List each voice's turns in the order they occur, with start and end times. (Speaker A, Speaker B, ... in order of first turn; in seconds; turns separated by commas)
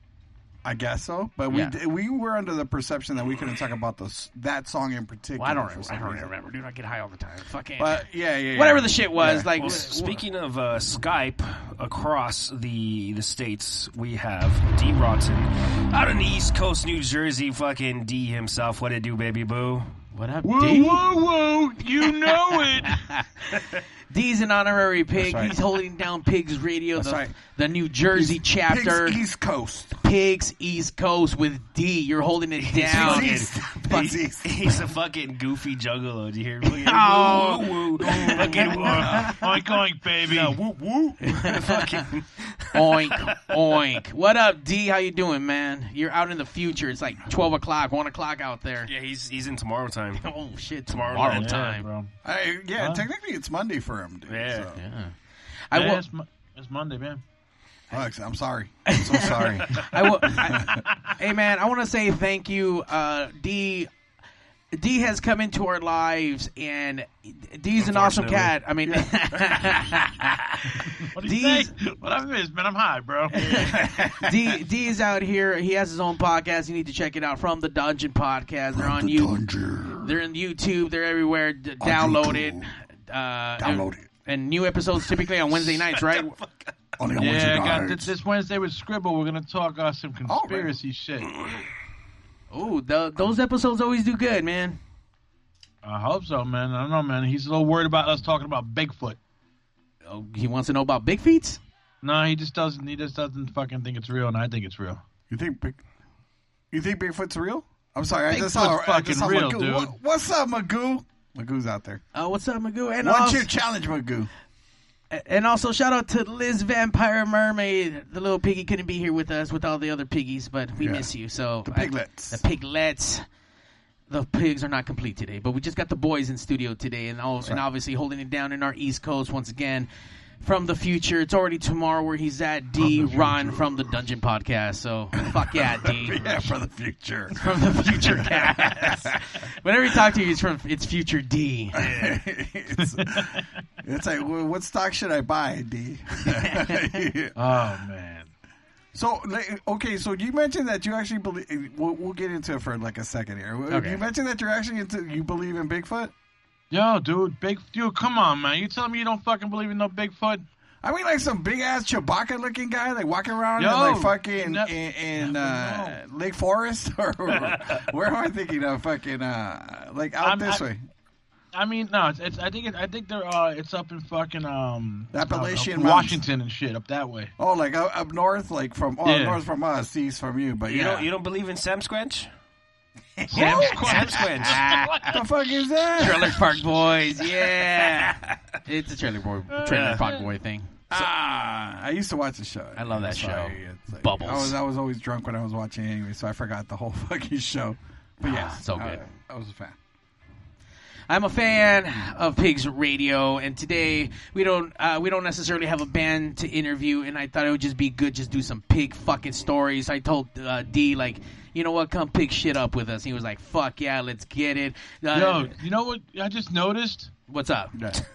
Speaker A: 0.6-6.3, Speaker B: 1.5-1.7, Speaker B: 5.4-10.2, Speaker A: 7.8-9.5, Speaker C: 9.6-19.9, Speaker B: 20.1-21.1, Speaker D: 20.4-23.1, Speaker B: 22.9-29.2, Speaker A: 25.2-25.6, Speaker A: 27.0-27.3, Speaker A: 28.1-30.0, Speaker B: 30.0-34.1, Speaker C: 32.6-39.3, Speaker A: 32.9-34.8, Speaker B: 36.6-39.0, Speaker D: 38.3-40.9, Speaker A: 39.0-39.4, Speaker C: 40.2-43.1, Speaker B: 41.2-41.8, Speaker B: 42.7-48.9, Speaker C: 48.9-50.2, Speaker B: 50.2-51.9, Speaker C: 50.9-51.8, Speaker D: 51.1-52.1, Speaker A: 52.2-54.8, Speaker D: 52.8-53.0, Speaker C: 54.3-54.7, Speaker B: 54.8-55.1, Speaker B: 55.7-56.0, Speaker D: 55.7-57.2, Speaker A: 57.9-60.8, Speaker B: 58.9-63.9, Speaker B: 64.7-71.7, Speaker C: 67.8-68.5, Speaker A: 68.8-69.8, Speaker D: 71.1-73.8, Speaker B: 73.3-79.3, Speaker A: 73.8-74.1, Speaker A: 78.8-80.2, Speaker B: 80.0-86.3, Speaker A: 81.8-82.7, Speaker A: 83.6-84.1, Speaker C: 85.9-86.7, Speaker A: 87.0-88.1, Speaker D: 87.2-91.3, Speaker A: 90.2-90.7, Speaker B: 92.5-94.8, Speaker D: 95.8-99.2, Speaker B: 100.0-101.6, Speaker D: 102.0-105.0, Speaker A: 105.3-105.8, Speaker A: 106.7-112.0, Speaker D: 108.3-109.9, Speaker B: 112.1-113.5, Speaker A: 113.0-114.3, Speaker B: 115.1-123.2, Speaker A: 120.8-121.1, Speaker A: 121.6-122.4, Speaker B: 124.1-129.9, Speaker B: 130.4-136.5, Speaker A: 132.8-133.8, Speaker A: 135.4-139.2, Speaker B: 137.4-141.8, Speaker A: 141.8-147.3, Speaker C: 141.8-142.2, Speaker D: 143.0-143.4, Speaker B: 146.3-147.0, Speaker D: 147.3-148.3, Speaker A: 148.9-156.1, Speaker B: 153.7-154.0, Speaker D: 156.7-160.4, Speaker A: 160.8-170.8, Speaker D: 163.6-166.0, Speaker D: 170.2-170.6, Speaker D: 171.5-177.3, Speaker A: 175.1-176.2, Speaker A: 177.4-181.1, Speaker D: 179.0-179.4, Speaker C: 180.7-182.3, Speaker B: 183.3-185.1, Speaker D: 183.3-185.2, Speaker C: 183.3-184.6, Speaker A: 185.1-186.4, Speaker B: 186.0-190.8, Speaker D: 189.5-190.2, Speaker C: 189.7-190.0, Speaker A: 190.9-199.8, Speaker B: 192.8-194.6, Speaker B: 198.2-199.0, Speaker B: 201.1-215.5, Speaker D: 215.1-217.1, Speaker B: 217.3-217.7, Speaker A: 217.7-218.0